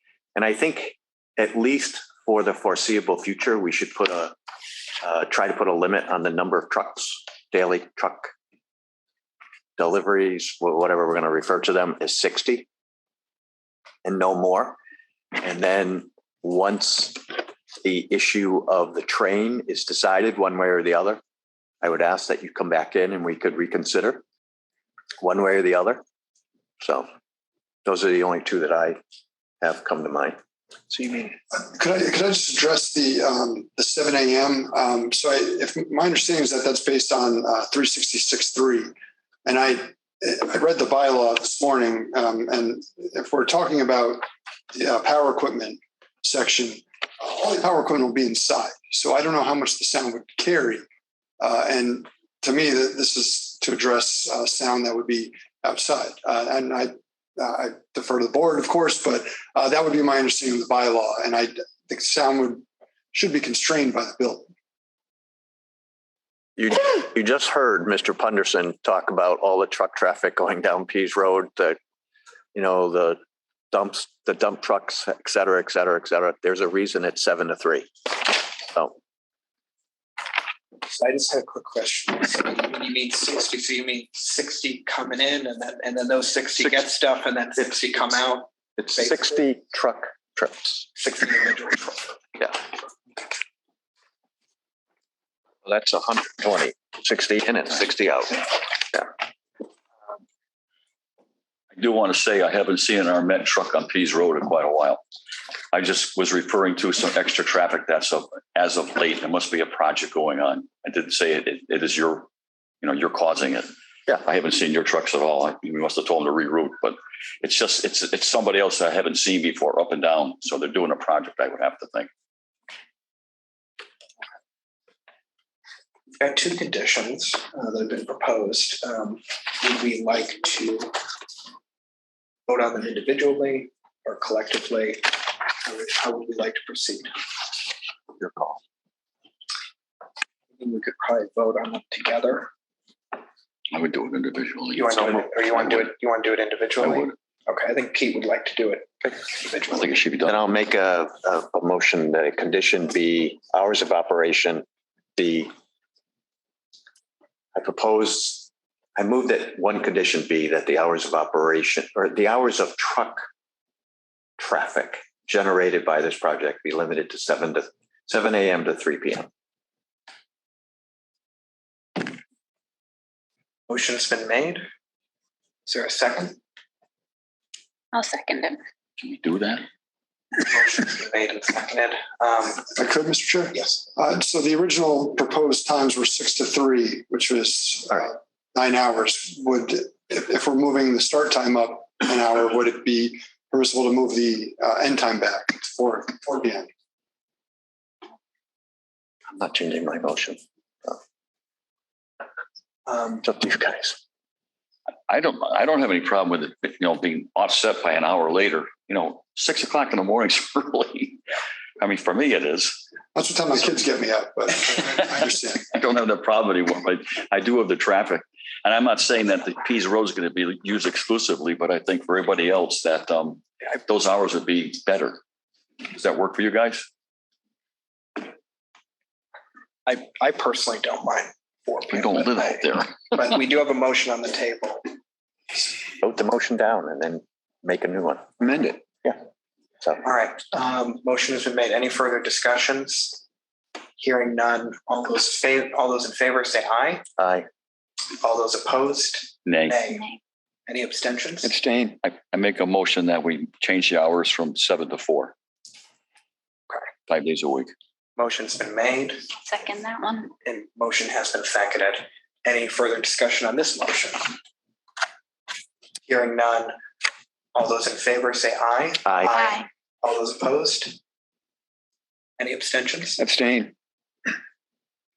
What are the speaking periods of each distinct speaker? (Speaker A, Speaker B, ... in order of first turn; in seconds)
Speaker A: 0.3-4.3, 5.0-8.3, 9.8-12.7, 14.0-14.8, 15.3-21.2, 21.8-24.2, 25.2-26.0, 26.8-27.1, 27.8-29.0, 29.6-30.4, 66.6-71.8, 72.5-73.2, 73.7-78.9, 86.6-86.8, 88.8-90.9, 95.6-99.1, 138.2-138.6, 150.2-154.6, 155.2-155.5, 157.5-163.2, 164.4-169.3, 199.3-201.0, 203.2-204.0, 236.0-239.2, 247.2-247.5, 269.1-269.3
Speaker B: 30.9-31.3, 80.8-89.4, 91.0-92.1, 126.2-130.9, 132.5-137.1, 140.6-142.5, 144.7-150.0, 173.7-174.7, 175.7-176.4, 180.4-182.7, 202.9-203.2, 229.8-234.9, 240.0-243.2, 244.0-247.0, 248.2-250.0, 250.7-251.6, 258.2-259.2, 260.4-264.3, 266.1-266.8, 267.5-271.0, 272.4-273.2
Speaker C: 31.5-38.9, 39.4-50.8, 51.4-64.5, 182.7-196.7, 213.1-215.6, 238.5-238.8, 251.4-252.0, 273.2-273.7
Speaker D: 101.7-105.0, 105.7-112.3, 112.8-122.1, 143.7-145.9, 146.8-147.1, 149.7-150.4, 179.0-179.6, 205.1-211.2, 211.8-212.8, 215.7-225.2, 225.8-226.8, 231.9-233.1, 249.4-249.8, 252.0-255.3, 257.1-257.7
Speaker E: 177.9-178.6, 249.9-250.2, 259.4-260.3, 269.3-269.7